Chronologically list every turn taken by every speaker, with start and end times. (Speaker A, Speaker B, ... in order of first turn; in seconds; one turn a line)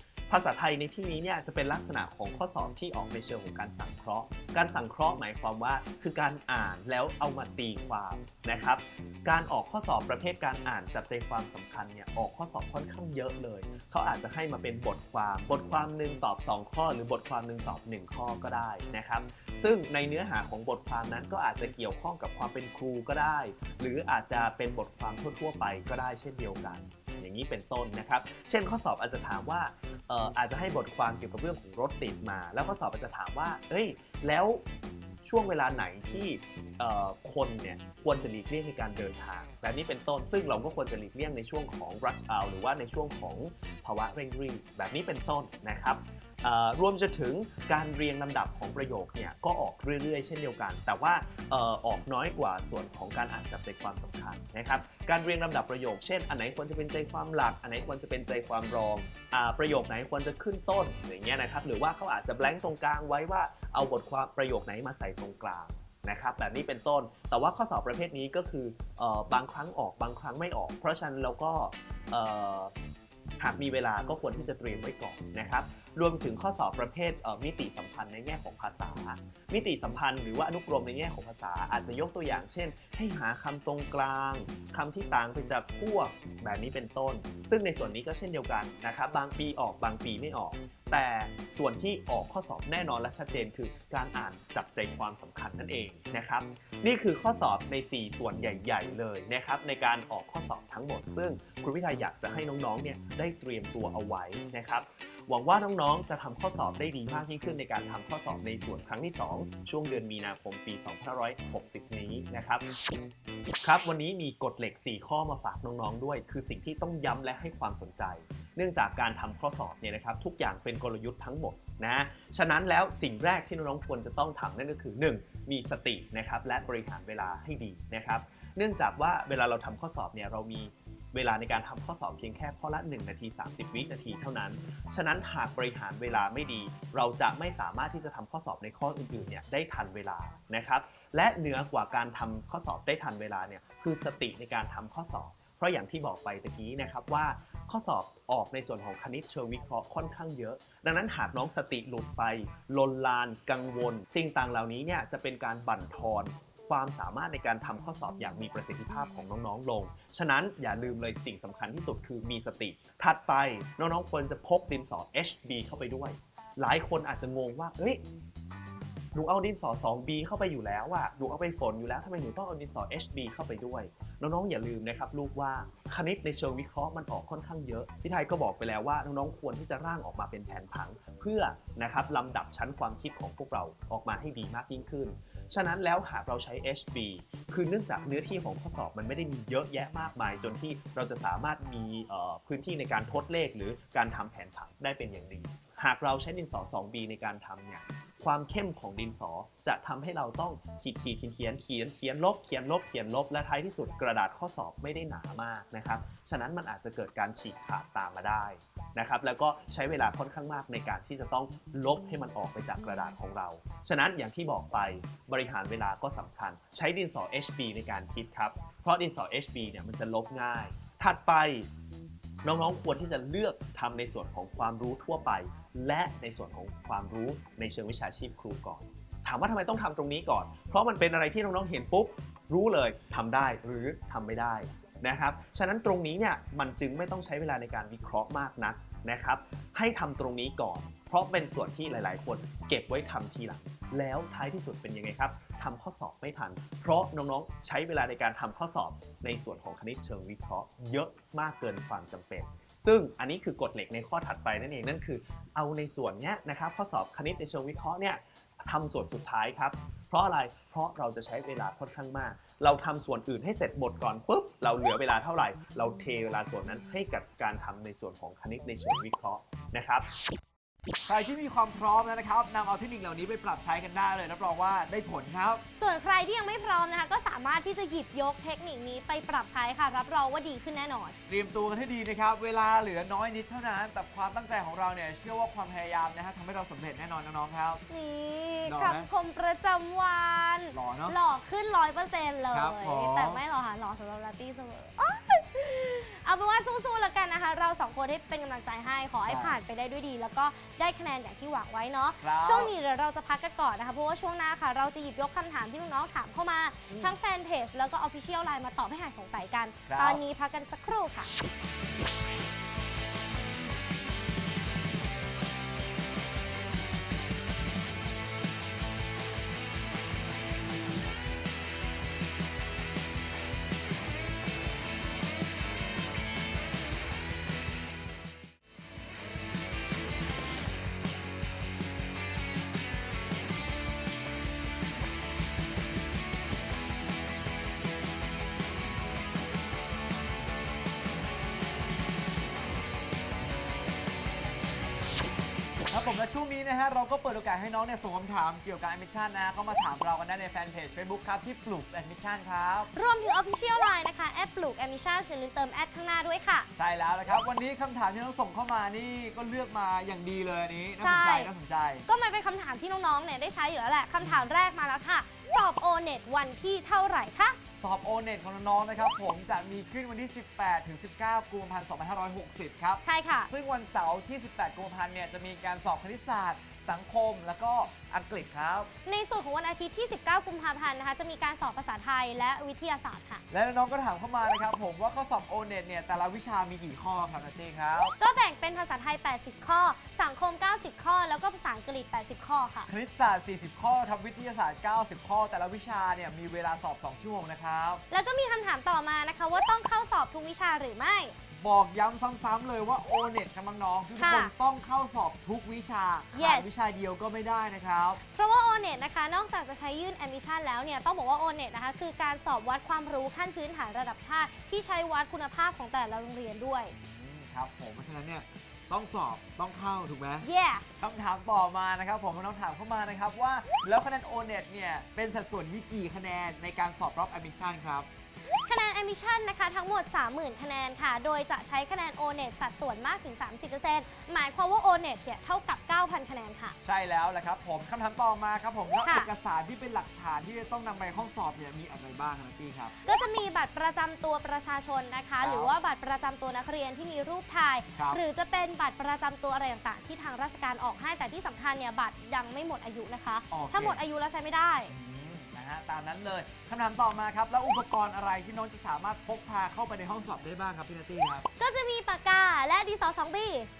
Speaker A: 0.3-34.6
Speaker A: 35.2-72.7
Speaker A: 73.4-112.7
Speaker A: 113.6-168.0
Speaker A: 169.1-221.7
Speaker A: 222.4-270.1
Speaker B: 271.1-275.6
Speaker C: 275.8-281.1
Speaker B: 281.3-287.8
Speaker C: 287.9-311.3
Speaker B: 288.6-289.1
Speaker B: 290.7-291.1
Speaker B: 292.5-293.4
Speaker B: 299.2-299.6
Speaker B: 302.2-302.7
Speaker B: 309.9-310.2
Speaker B: 345.9-352.9
Speaker C: 352.9-356.7
Speaker B: 356.8-362.1
Speaker C: 361.0-361.5
Speaker C: 362.1-367.6
Speaker B: 364.2-364.5
Speaker B: 367.8-378.9
Speaker C: 373.0-373.5
Speaker C: 379.1-383.4
Speaker B: 383.5-388.1
Speaker C: 388.2-392.9
Speaker B: 392.9-398.0
Speaker C: 398.1-401.3
Speaker B: 401.6-408.2
Speaker C: 404.2-404.5
Speaker C: 406.3-406.7
Speaker C: 408.3-416.9
Speaker B: 416.9-420.4
Speaker C: 420.4-420.8
Speaker B: 421.0-428.1
Speaker C: 428.5-436.8
Speaker B: 436.8-442.9
Speaker C: 439.0-439.3
Speaker C: 443.0-454.9
Speaker B: 445.4-445.7
Speaker B: 453.5-454.0
Speaker B: 454.9-461.5
Speaker C: 461.6-463.7